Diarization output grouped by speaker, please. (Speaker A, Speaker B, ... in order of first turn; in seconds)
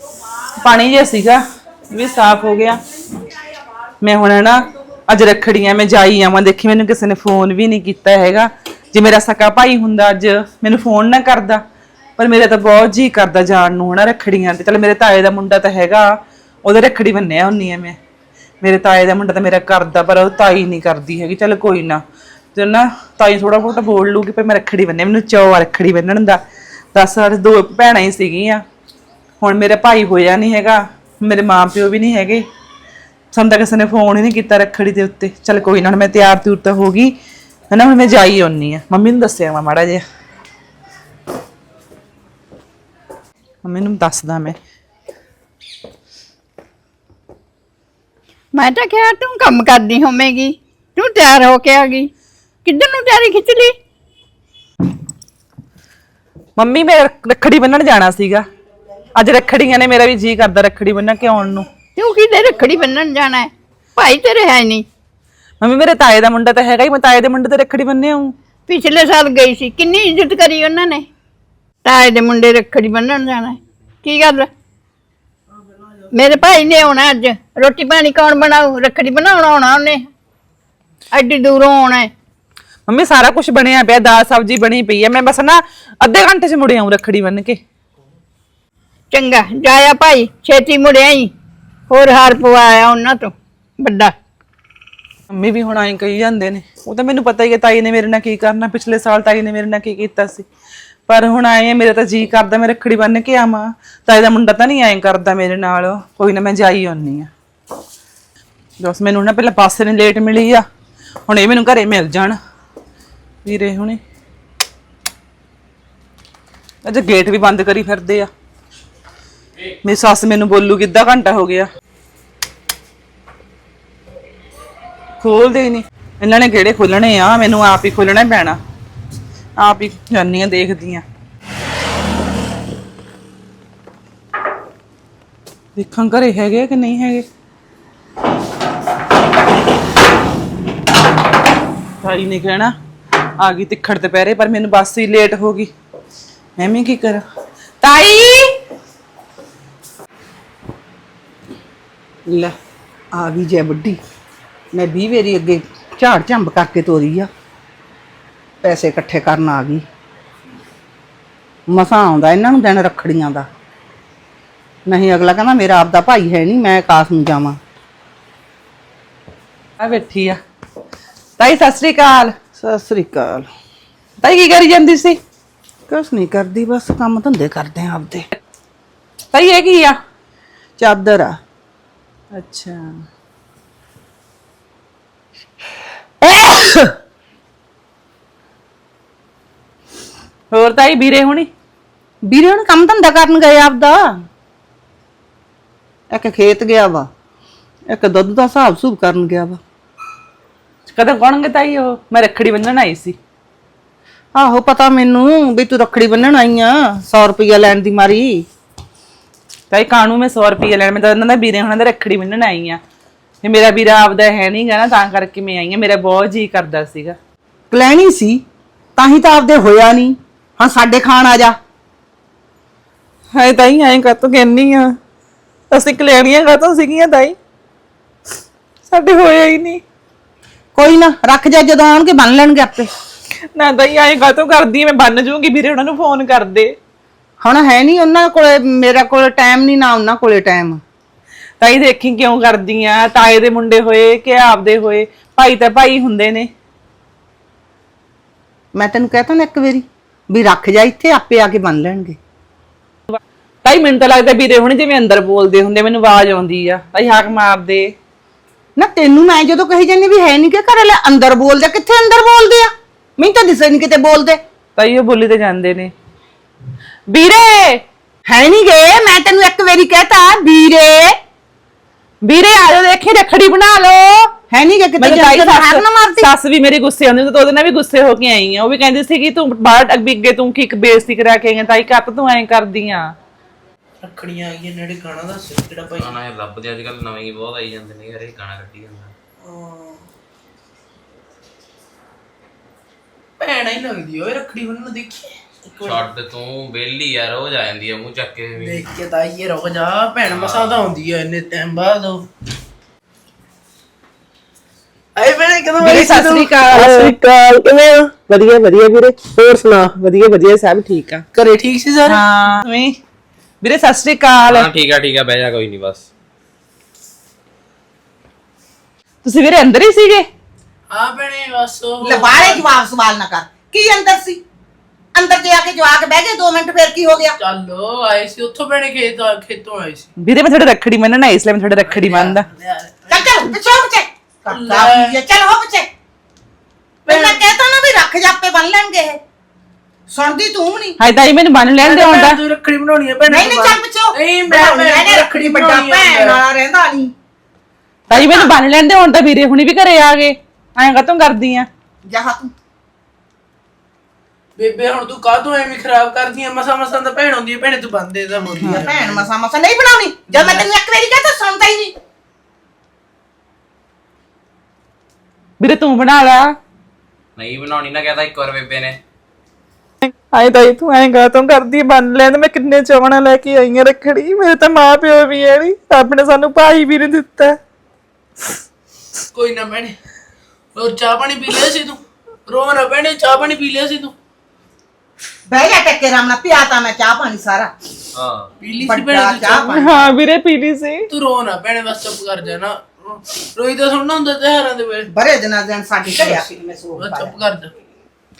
Speaker A: 0.6-2.8, 4.0-11.6, 12.2-16.1, 16.6-18.0, 18.6-22.0, 22.5-26.4, 26.9-28.6, 29.4-32.4, 33.3-37.1, 37.7-40.0, 43.6-44.5, 56.6-58.4, 59.1-61.7, 65.6-68.3, 82.9-87.6, 95.3-100.5, 101.1-107.3, 108.8-110.6, 111.3-112.4, 113.4-114.0, 116.8-118.3, 119.8-121.7, 125.2-128.6, 129.6-131.0, 135.7-137.2, 142.0-142.7, 143.4-145.7, 146.6-147.2, 147.8-148.5, 169.8-170.4, 171.4-172.3, 174.2-175.2, 179.3-180.0, 182.3-182.9, 190.5-191.5, 200.9-203.2, 209.7-212.8, 213.4-217.2, 223.3-224.9, 225.7-227.3, 228.9-229.8, 233.5-236.7, 241.6-246.5, 253.6-257.9, 264.8-265.9, 267.1-267.8, 272.2-274.3, 275.0-283.1, 305.8-307.1, 308.4-309.2, 310.0-311.2, 312.1-313.0, 313.6-314.7, 319.2-320.3, 330.2-332.5, 341.0-342.4, 348.1-351.7, 365.6-366.5, 370.0-377.6, 389.7-391.1
Speaker B: 48.5-52.1, 52.6-53.7, 62.0-64.8, 68.7-71.1, 71.8-74.5, 76.1-80.0, 81.1-82.1, 89.1-91.3, 91.9-94.1
Speaker C: 153.1-154.0, 154.7-157.3, 158.6-159.8, 161.7-163.5, 164.9-167.6, 172.6-173.5, 175.9-178.2, 180.8-181.4, 186.4-186.8, 192.2-194.1, 196.1-197.1, 197.9-199.6, 204.3-208.4, 217.7-218.4, 218.9-221.6, 230.7-232.9, 237.4-240.8, 248.7-252.2, 258.8-264.4, 268.3-271.1, 274.5-276.3, 322.0-324.4, 325.1-327.4, 333.1-335.9, 337.1-339.2, 340.1-341.0, 343.3-347.1, 348.1-348.5, 352.1-352.5, 358.6-361.9, 385.5-387.7, 388.8-390.1, 395.1-397.3
Speaker D: 284.0-286.2, 289.4-290.0, 293.4-296.1, 298.6-302.3, 305.1-310.0, 311.3-312.2, 320.9-322.7, 327.4-330.1, 331.8-333.3, 334.5-335.2, 337.1-337.5, 341.8-346.4, 354.6-359.3, 379.3-379.9, 380.7-384.1, 388.6-389.7, 391.1-395.1, 396.1-397.7
Speaker E: 285.9-289.1, 295.8-298.9, 300.3-300.9, 314.5-316.1, 367.4-369.0, 388.1-388.5